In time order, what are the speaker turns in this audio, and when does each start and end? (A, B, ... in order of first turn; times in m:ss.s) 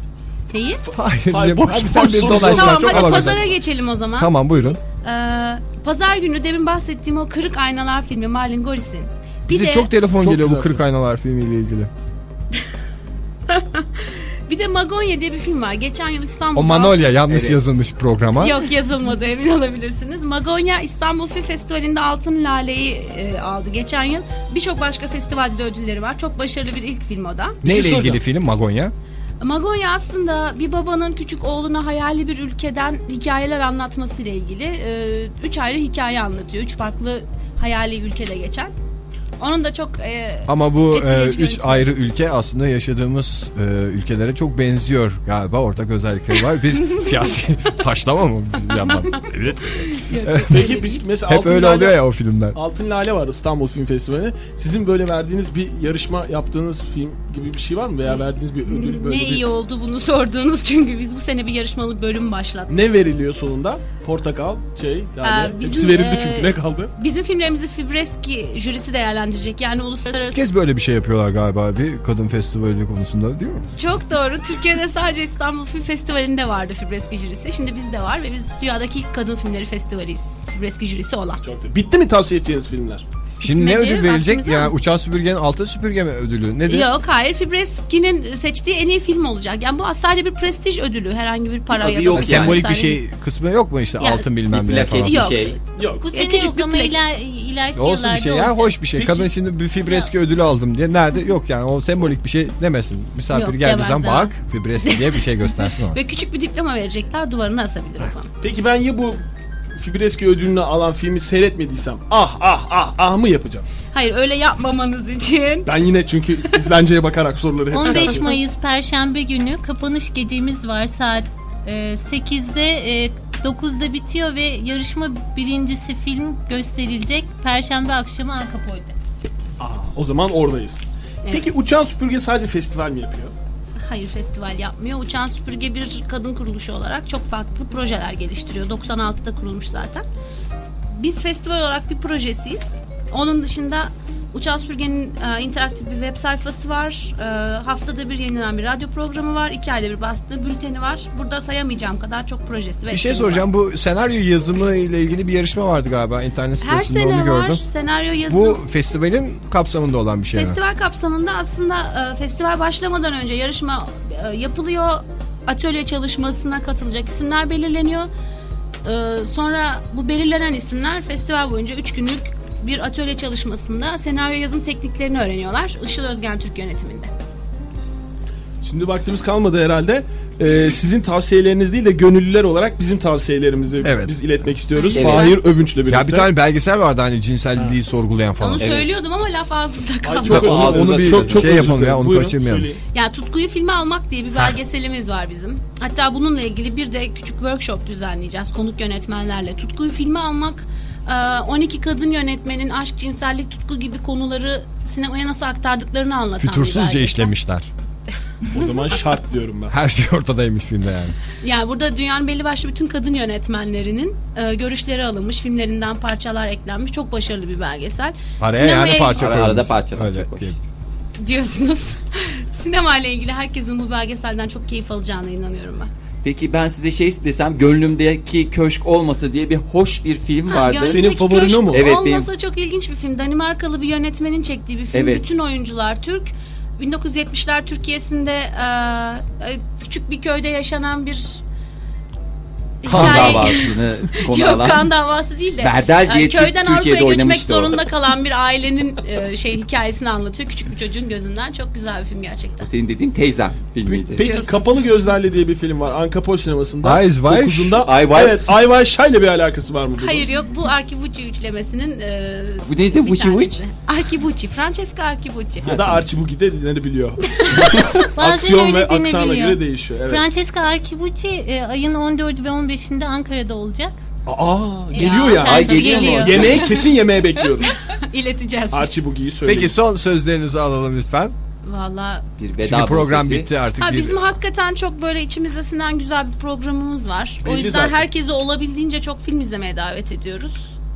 0:00.5-0:00.8 A
0:00.9-0:03.6 B
0:01.3-0:03.6 C
0:02.3-0:09.9 A
0:04.2-0:04.8 B
0:09.5-0:11.9 B
0:10.2-0:10.8 C
0:13.5-0:17.1 A
0:16.6-0:18.6 B
0:17.3-0:17.6 D
0:18.4-0:28.2 A
0:27.6-0:28.9 B
0:29.4-0:38.7 A
0:39.4-0:41.9 A
0:40.5-0:50.7 B
0:48.9-0:49.3 A
0:49.8-0:51.0 A
0:50.5-0:52.0 C
0:51.3-0:52.6 B
0:52.5-0:59.5 C
0:58.1-1:02.7 A
1:02.7-1:06.9 C
1:05.2-1:10.4 A
1:10.3-1:13.7 B
1:13.8-1:21.4 A
1:21.4-1:23.0 C
1:23.4-1:26.9 B
1:23.4-1:24.7 A
1:26.7-1:33.0 A
1:31.7-1:32.6 D
1:32.1-1:35.3 B
1:34.0-1:34.3 A
1:34.5-1:35.6 D
1:35.0-1:37.0 A
1:35.8-1:36.1 C
1:36.0-1:38.8 E
1:37.8-1:46.0 B
1:39.0-1:39.3 C
1:43.3-1:48.3 A
1:48.4-1:49.2 C
1:49.8-1:53.7 C
1:53.9-1:55.7 A
1:55.7-1:58.3 C
1:57.7-2:08.9 E
1:57.8-1:58.3 A
2:09.6-2:13.3 C
2:11.2-2:11.5 A
2:13.8-2:20.0 A
2:20.9-2:33.5 A
2:32.9-2:37.6 B
2:36.6-2:38.6 A
2:38.3-2:40.6 B
2:40.3-2:48.1 A
2:48.8-2:57.1 A
2:58.6-3:06.3 C
3:03.8-3:04.2 B
3:04.7-3:05.4 A
3:05.0-3:05.4 D
3:05.9-3:08.8 B
3:08.4-3:10.6 A
3:08.6-3:08.9 D
3:10.0-3:12.8 C
3:10.3-3:12.7 B
3:10.3-3:11.7 D
3:12.9-3:27.3 A
3:26.4-3:27.7 B
3:28.5-3:29.8 C
3:29.7-3:31.2 B
3:31.4-3:39.4 A
3:38.4-3:40.6 B
3:39.1-3:40.5 D
3:41.2-3:45.9 A
3:46.2-3:51.2 D
3:50.5-4:01.4 A
3:50.7-3:51.9 C
3:51.7-3:52.3 D
3:54.9-3:55.5 D
4:02.8-4:12.7 A
4:02.9-4:04.9 D
4:03.0-4:03.3 B
4:05.6-4:07.8 D
4:12.6-4:14.3 D
4:13.9-4:20.3 C
4:14.2-4:14.6 A
4:16.8-4:17.8 B
4:17.8-4:18.7 D
4:20.0-4:25.8 A
4:22.7-4:23.6 D
4:25.6-4:30.3 C
4:27.3-4:28.0 A
4:28.2-4:34.0 E
4:34.3-4:37.8 C
4:34.9-4:36.9 A
4:34.9-4:36.6 E
4:35.4-4:36.6 D
4:37.6-4:39.0 A
4:38.7-4:39.8 C
4:39.4-4:41.4 B
4:41.6-4:42.2 A
4:42.4-4:43.5 D
4:42.6-4:44.3 B
4:43.8-4:50.7 A
4:47.4-4:48.0 C